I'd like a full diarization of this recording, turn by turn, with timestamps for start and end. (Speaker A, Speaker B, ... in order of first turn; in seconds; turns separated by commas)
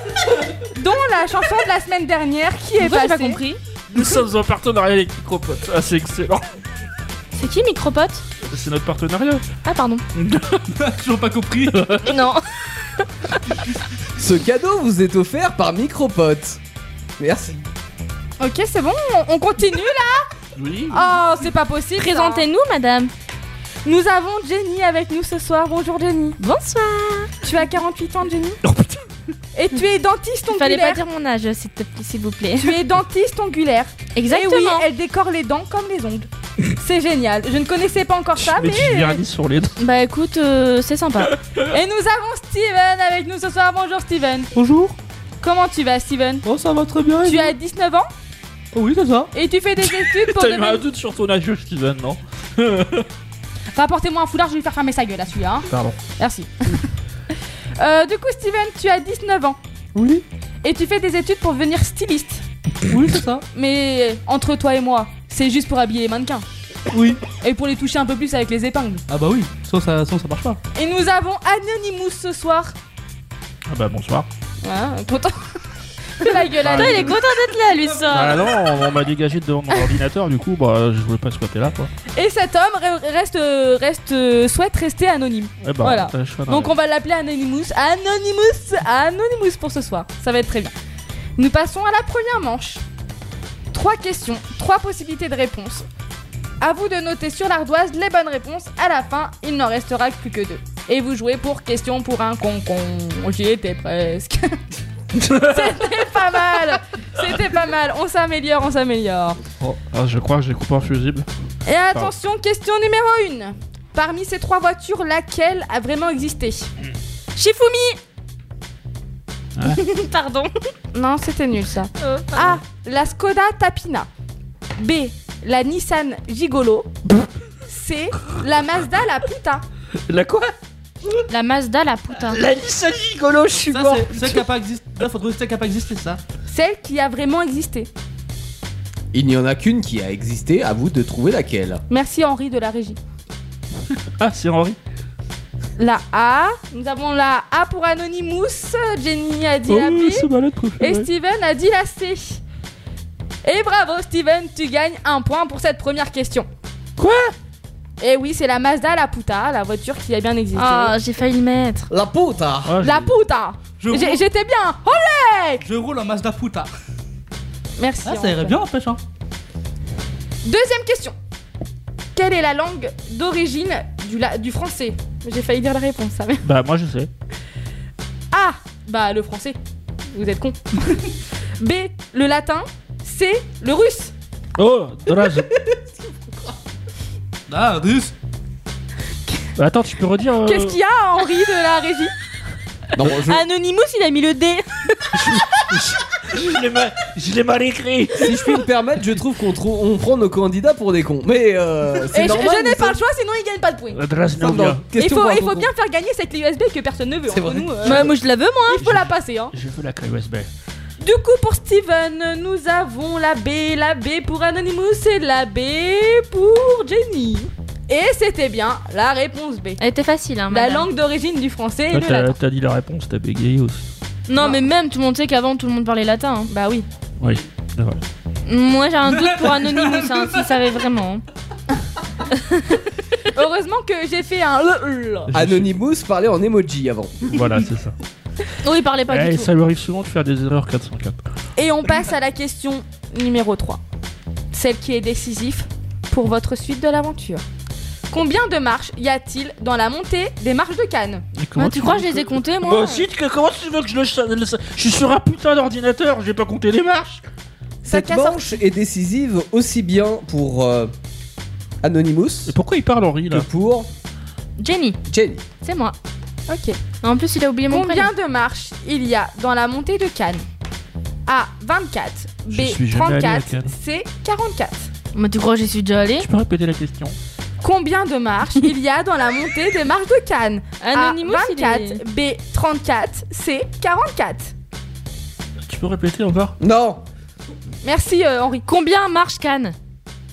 Speaker A: 0.7-3.4, Speaker B: 2.8-3.6, Speaker C: 3.9-6.4, Speaker B: 7.3-8.2, Speaker C: 8.4-9.4, Speaker B: 9.6-10.0, Speaker C: 10.2-10.6, Speaker D: 10.8-11.8, Speaker C: 11.7-12.2, Speaker B: 12.0-12.4, Speaker E: 14.2-16.6, Speaker E: 17.2-17.6, Speaker A: 18.4-20.3, Speaker C: 20.6-21.1, Speaker A: 20.9-22.5, Speaker B: 22.0-23.1, Speaker A: 23.8-26.4, Speaker B: 26.4-27.3, Speaker A: 27.4-28.6, Speaker C: 28.6-29.0, Speaker A: 29.5-31.0, Speaker B: 30.5-32.8, Speaker A: 32.6-39.2, Speaker B: 34.1-34.9, Speaker C: 38.4-39.8, Speaker B: 39.8-41.4, Speaker A: 41.7-44.5, Speaker D: 44.5-45.0, Speaker A: 45.4-46.5, Speaker D: 46.4-47.5, Speaker A: 47.2-48.1, Speaker D: 48.7-49.3, Speaker A: 49.3-50.8, Speaker C: 49.8-53.1, Speaker A: 53.7-56.8, Speaker C: 55.7-56.0, Speaker A: 57.8-59.6, Speaker D: 60.0-60.2, Speaker A: 60.6-62.4, Speaker D: 62.9-63.4, Speaker A: 63.5-66.4, Speaker D: 66.9-67.2, Speaker A: 67.4-69.0, Speaker D: 69.1-70.6, Speaker A: 70.7-72.7, Speaker C: 73.7-74.3, Speaker A: 74.6-75.4, Speaker A: 76.2-77.2, Speaker C: 76.6-77.2, Speaker B: 76.6-78.4, Speaker C: 78.1-81.9, Speaker A: 82.1-90.7, Speaker C: 85.6-86.7, Speaker A: 91.4-92.8, Speaker A: 93.7-95.8, Speaker A: 96.6-104.6, Speaker C: 105.2-105.7, Speaker A: 105.2-109.4, Speaker C: 109.6-111.3, Speaker A: 111.7-116.7, Speaker B: 117.4-118.0, Speaker B: 119.6-120.5, Speaker A: 120.9-124.1, Speaker B: 122.0-122.6, Speaker A: 124.8-126.9, Speaker A: 127.7-129.6, Speaker C: 130.1-130.5, Speaker B: 131.3-132.4, Speaker C: 132.2-134.4, Speaker D: 133.7-136.2, Speaker A: 136.5-137.9, Speaker E: 139.1-141.8, Speaker A: 141.9-143.0, Speaker C: 144.2-144.8, Speaker A: 145.8-152.4, Speaker C: 149.7-151.1, Speaker A: 153.4-156.5, Speaker C: 157.0-157.3, Speaker A: 158.0-160.9, Speaker B: 160.5-161.9, Speaker E: 161.9-162.8, Speaker C: 162.7-163.1, Speaker A: 162.8-165.6, Speaker D: 163.8-164.2, Speaker D: 165.6-166.7, Speaker A: 167.8-168.6, Speaker D: 168.0-169.0, Speaker A: 170.4-171.1, Speaker A: 172.1-176.4, Speaker C: 176.4-177.1, Speaker A: 178.3-179.6, Speaker A: 180.1-184.1, Speaker C: 184.6-185.5, Speaker E: 185.3-186.5, Speaker D: 187.5-188.1, Speaker C: 189.6-190.8, Speaker A: 190.4-192.1, Speaker E: 192.9-193.4, Speaker B: 193.1-194.7, Speaker C: 195.1-198.6, Speaker E: 198.2-203.0, Speaker A: 202.1-204.0, Speaker C: 203.9-204.8, Speaker E: 204.4-205.7, Speaker A: 204.9-208.1, Speaker E: 207.3-208.1, Speaker B: 207.8-208.8, Speaker A: 208.7-209.5, Speaker C: 208.8-210.5, Speaker A: 211.0-219.8, Speaker B: 219.8-220.9, Speaker A: 220.5-222.3, Speaker C: 221.9-223.9, Speaker B: 224.3-226.5, Speaker A: 224.3-224.6, Speaker A: 226.5-226.8, Speaker C: 227.2-228.0, Speaker B: 228.4-231.2, Speaker D: 229.0-230.8, Speaker B: 232.4-232.8, Speaker A: 233.3-235.3, Speaker C: 235.3-235.7, Speaker E: 235.3-237.5, Speaker C: 237.3-237.9, Speaker B: 238.6-239.5, Speaker C: 239.1-241.2, Speaker A: 241.6-243.8, Speaker A: 244.5-247.4, Speaker A: 248.1-251.2, Speaker C: 251.4-257.2, Speaker B: 251.6-253.1, Speaker A: 257.8-258.6, Speaker E: 257.8-260.9, Speaker E: 261.8-262.5, Speaker C: 262.5-263.5, Speaker E: 263.3-263.9, Speaker B: 264.6-265.0, Speaker E: 265.1-265.4, Speaker B: 265.6-265.9, Speaker A: 266.5-266.8, Speaker B: 267.0-268.1, Speaker A: 267.7-270.4, Speaker A: 271.3-274.9, Speaker C: 272.5-273.7, Speaker B: 275.1-276.3, Speaker C: 276.2-277.1, Speaker A: 277.6-284.5, Speaker B: 280.8-282.0, Speaker C: 285.6-286.5, Speaker E: 286.6-287.0, Speaker A: 287.8-288.6, Speaker B: 288.6-289.7